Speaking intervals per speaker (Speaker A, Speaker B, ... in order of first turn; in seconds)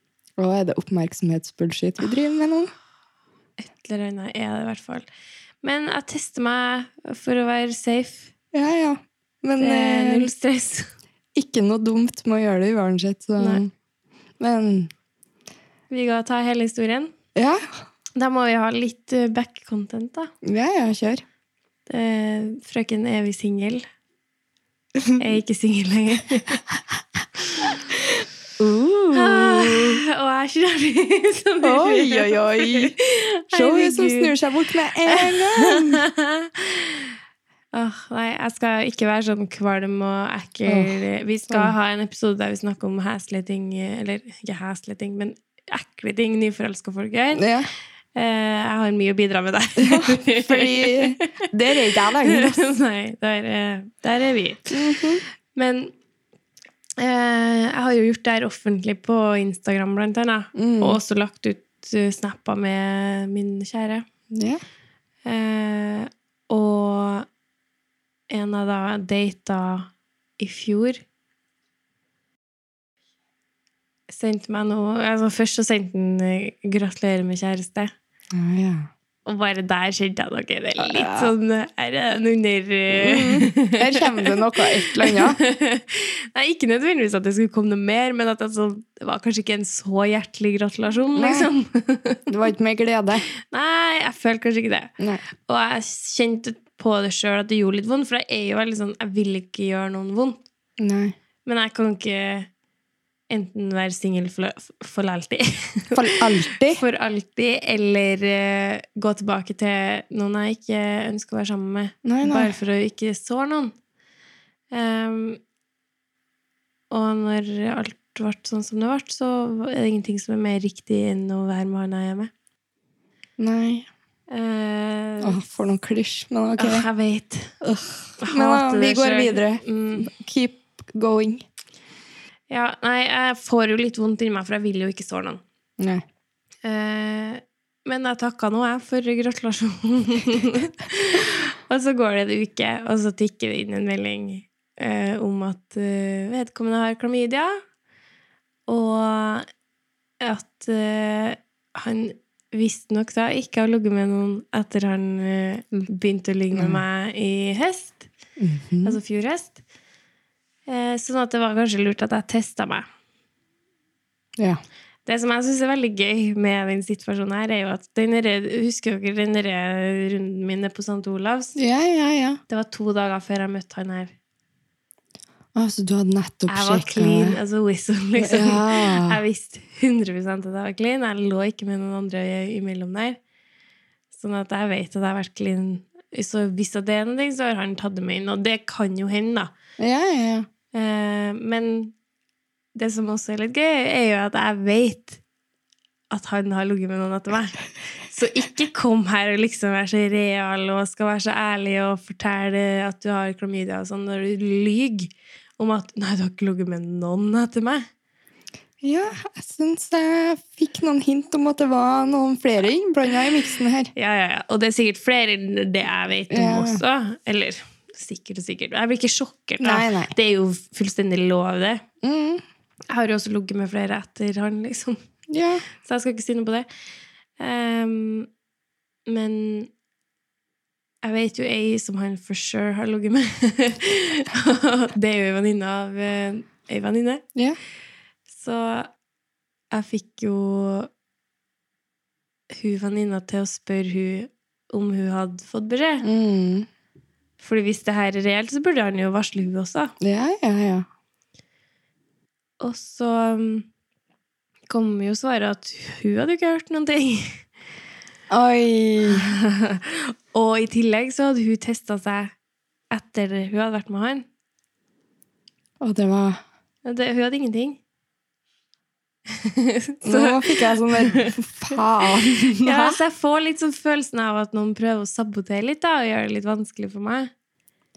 Speaker A: 0.4-2.7, 8.5-10.3, 11.3-13.7, 14.4-14.9, 17.4-17.6, 20.4-21.2, 25.0-25.2, 28.0-30.0, 31.6-33.0, 33.5-36.0, 40.7-41.0, 41.5-41.7, 47.4-47.7, 49.8-52.7, 54.7-55.2, 60.5-61.0, 64.3-64.6, 78.3-78.9, 80.8-81.3, 82.9-85.4, 91.2-91.5, 92.3-93.2, 100.8-101.2, 105.9-106.8, 112.0-112.5, 123.4-123.9, 125.2-126.9, 127.6-131.4, 135.8-136.0, 156.5-156.8, 158.4-159.0, 171.6-172.4, 175.6-177.4, 178.2-179.2, 189.8-190.5, 208.8-213.9, 216.3-216.8, 219.6-220.1, 222.0-222.4, 225.3-225.7, 246.0-246.7, 250.0-250.9, 258.3-259.3, 265.8-266.4, 270.1-273.0
Speaker B: 3.6-5.1, 5.6-8.3, 9.6-10.9, 13.4-13.6, 15.9-17.1, 18.2-20.3, 21.9-23.8, 25.2-26.6, 27.5-27.8, 29.1-34.4, 35.1-37.1, 37.7-47.5, 48.1-51.3, 52.0-55.9, 57.0-64.1, 65.3-67.3, 68.3-71.0, 74.1-77.9, 79.3-92.3, 93.5-94.9, 95.5-100.4, 101.5-102.5, 103.3-113.7, 114.7-115.4, 116.9-122.3, 124.3-125.5, 126.6-127.6, 128.2-130.1, 132.5-135.4, 136.6-147.6, 148.7-149.5, 150.2-158.1, 158.8-159.6, 160.7-162.9, 165.1-171.6, 172.5-174.1, 176.5-183.2, 184.1-189.5, 190.7-191.9, 192.8-195.2, 196.1-207.9, 213.9-221.8, 222.9-225.0, 225.8-226.7, 227.4-228.3, 229.1-229.7, 231.0-237.2, 238.3-238.9, 239.7-240.9, 242.5-246.1, 247.4-249.9, 252.6-253.7, 254.7-257.4, 259.1-262.3, 262.9-264.3, 266.9-267.8, 269.4-271.3, 272.6-277.3